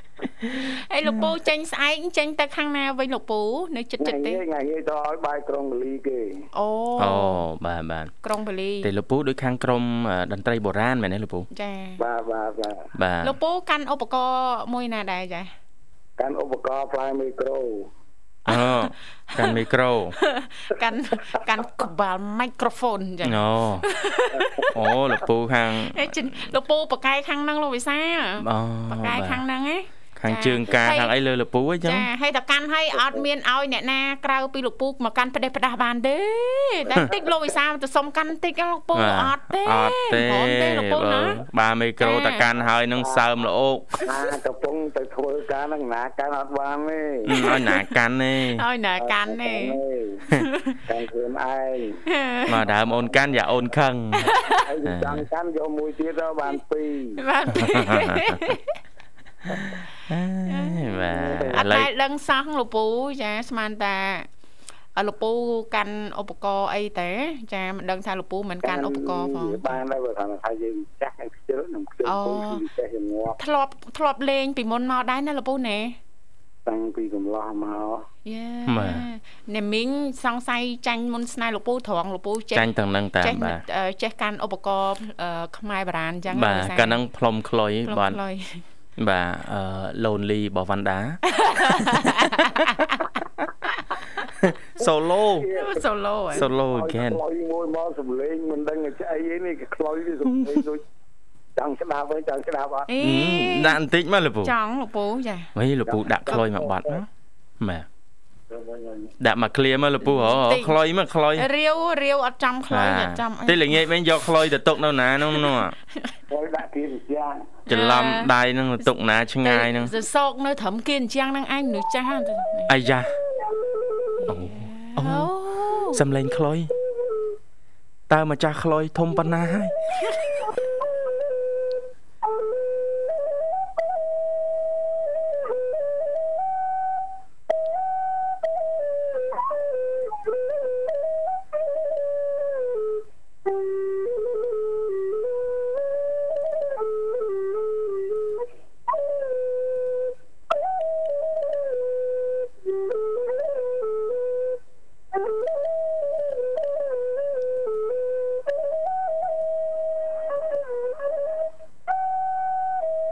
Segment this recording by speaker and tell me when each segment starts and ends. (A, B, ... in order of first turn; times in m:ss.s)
0:00.6-0:04.4 A
0:04.0-0:06.5 B
0:06.5-0:07.4 A
0:07.0-0:08.1 C
0:08.2-0:08.9 A
0:08.8-0:11.5 C
0:11.5-0:12.0 A
0:12.0-0:12.9 B
0:13.0-0:13.4 C
0:13.2-0:15.5 A
0:16.2-0:17.9 B
0:18.5-0:20.2 C
0:18.5-0:19.6 A
0:20.2-0:24.8 A
0:23.2-0:23.9 C
0:24.4-0:24.6 B
0:24.7-0:26.3 C
0:25.9-0:31.1 A
0:28.4-0:29.4 C
0:30.2-0:32.1 C
0:31.8-0:41.4 A
0:39.0-0:44.0 C
0:42.0-0:42.5 A
0:42.9-0:43.3 B
0:44.0-0:47.4 B
0:47.3-0:48.6 C
0:47.3-0:47.9 A
0:48.6-0:49.8 A
0:49.0-0:50.3 B
0:50.4-0:50.8 A
0:50.8-0:52.0 B
0:52.1-0:52.6 A
0:52.5-0:54.3 C
0:52.7-0:53.4 B
0:54.2-0:54.6 A
0:54.5-0:57.2 B
0:54.8-0:55.3 C
0:57.2-0:58.7 A
0:57.5-0:58.6 C
0:59.5-1:01.9 C
1:00.5-1:04.3 A
1:01.1-1:01.6 B
1:05.0-1:09.8 A
1:08.6-1:13.4 B
1:12.0-1:12.6 A
1:13.4-1:16.0 A
1:16.6-1:18.1 B
1:18.2-1:22.7 A
1:18.7-1:19.0 C
1:22.5-1:23.6 C
1:23.2-1:27.0 A
1:26.3-1:28.2 C
1:27.9-1:28.6 A
1:29.0-1:32.7 C
1:31.3-1:33.1 A
1:34.4-1:35.5 C
1:35.2-1:35.8 B
1:35.5-1:36.5 A
1:36.3-1:37.2 C
1:36.4-1:40.8 B
1:40.3-1:40.6 C
1:41.6-1:42.9 B
1:42.9-1:43.8 A
1:43.0-1:44.5 C
1:44.4-1:45.5 A
1:45.6-1:47.1 C
1:45.9-1:47.0 B
1:47.6-1:47.9 C
1:48.5-1:49.1 B
1:49.2-1:51.5 C
1:50.0-1:50.8 A
1:51.4-1:53.8 A
1:52.7-1:55.8 C
1:56.3-1:57.6 B
1:57.7-1:58.9 A
1:57.7-1:59.9 C
1:59.4-2:02.7 A
2:02.7-2:03.1 C
2:04.2-2:06.0 A
2:04.3-2:05.3 C
2:05.9-2:06.7 C
2:08.1-2:09.7 C